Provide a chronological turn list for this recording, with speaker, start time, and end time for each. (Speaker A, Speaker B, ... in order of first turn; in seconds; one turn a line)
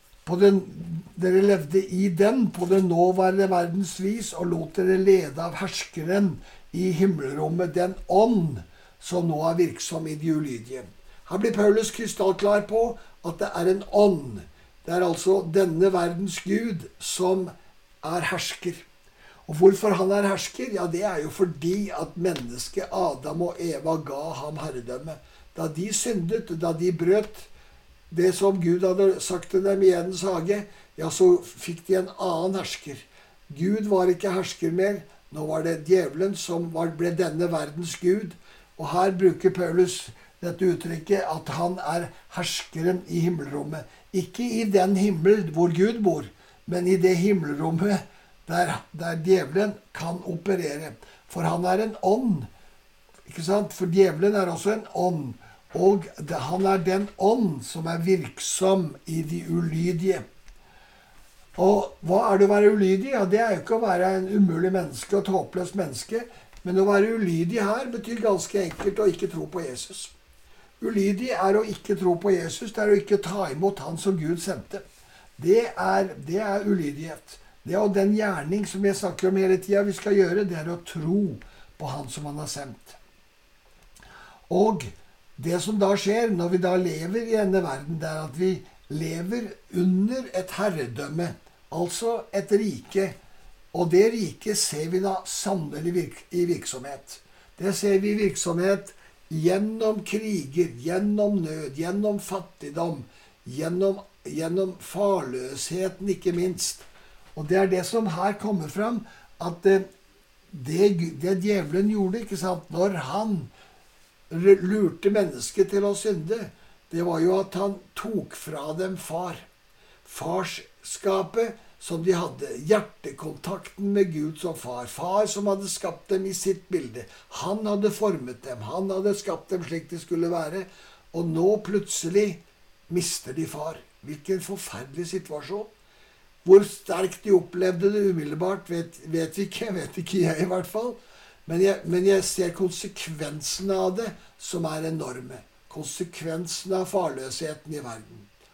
Speaker A: 0.2-18.8
Speaker A: 19.4-27.5
Speaker A: 28.1-52.5
Speaker A: 53.3-60.2
Speaker A: 61.6-70.1
Speaker A: 70.8-74.8
Speaker A: 75.4-83.0
Speaker A: 84.5-93.2
Speaker A: 93.7-109.9
Speaker A: 110.5-113.5
Speaker A: 114.3-119.5
Speaker A: 120.0-135.7
Speaker A: 136.4-148.3